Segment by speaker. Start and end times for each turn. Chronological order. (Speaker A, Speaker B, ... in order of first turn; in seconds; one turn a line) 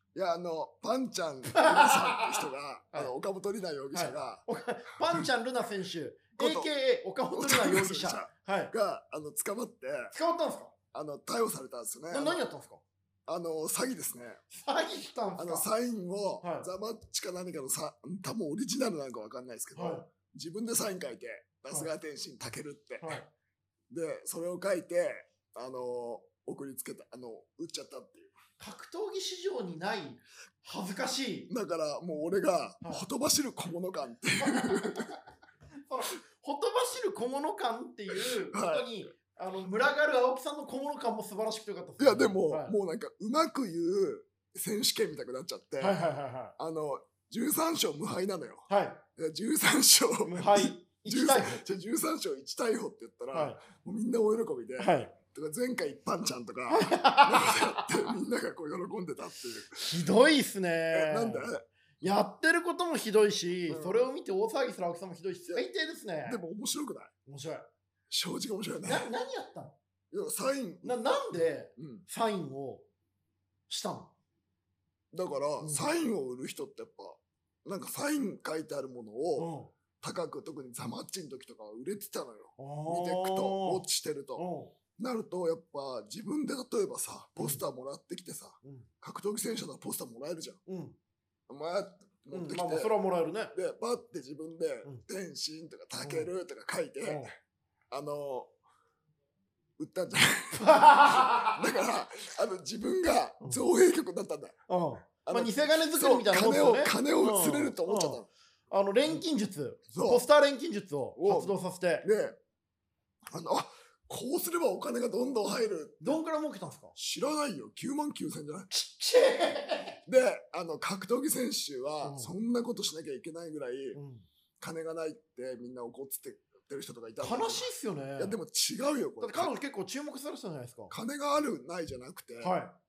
Speaker A: 0.1-4.4
Speaker B: 1.5-3.1
Speaker B: 3.9-8.7
Speaker A: 6.4-6.7
Speaker A: 7.3-10.1
Speaker B: 10.1-10.7
Speaker A: 10.9-12.4
Speaker B: 12.1-12.8
Speaker A: 13.2-14.4
Speaker B: 14.5-15.7
Speaker A: 15.4-23.2
Speaker B: 16.4-16.7
Speaker B: 19.7-20.1
Speaker B: 23.0-23.3
Speaker A: 23.9-28.3
Speaker B: 28.6-31.5
Speaker A: 31.5-35.1
Speaker B: 34.4-35.2
Speaker B: 35.9-42.7
Speaker A: 38.5-38.9
Speaker A: 42.0-46.0
Speaker B: 45.8-46.5
Speaker A: 46.6-59.9
Speaker B: 48.7-49.0
Speaker B: 50.2-51.6
Speaker B: 53.3-53.6
Speaker B: 54.8-55.1
Speaker B: 56.7-58.1
Speaker B: 59.8-61.5
Speaker A: 60.9-61.6
Speaker B: 62.0-66.4
Speaker A: 63.7-64.0
Speaker A: 66.2-67.1
Speaker B: 67.2-67.7
Speaker A: 68.1-69.1
Speaker B: 68.8-69.8
Speaker A: 70.1-71.0
Speaker B: 70.8-72.8
Speaker A: 71.8-72.0
Speaker B: 73.7-74.1
Speaker A: 75.1-79.5
Speaker B: 75.6-75.9
Speaker B: 79.4-79.7
Speaker A: 80.0-84.5
Speaker B: 82.6-84.7
Speaker A: 85.0-90.6
Speaker B: 88.6-88.9
Speaker B: 90.7-91.0
Speaker A: 91.5-92.9
Speaker B: 92.3-93.5
Speaker A: 93.5-97.3
Speaker B: 96.0-96.3
Speaker B: 97.0-97.3
Speaker A: 97.9-98.5
Speaker A: 99.8-100.6
Speaker B: 100.5-101.6
Speaker A: 101.5-104.5
Speaker B: 104.7-112.1
Speaker A: 105.2-108.3
Speaker A: 109.9-110.2
Speaker A: 111.2-112.4
Speaker A: 113.3-116.2
Speaker B: 116.0-117.0
Speaker A: 117.0-118.7
Speaker B: 118.7-120.0
Speaker A: 120.1-124.0
Speaker B: 122.0-122.3
Speaker B: 123.9-124.2
Speaker A: 124.6-129.5
Speaker B: 127.2-128.4
Speaker B: 129.2-130.9
Speaker A: 130.9-132.5
Speaker B: 132.4-132.7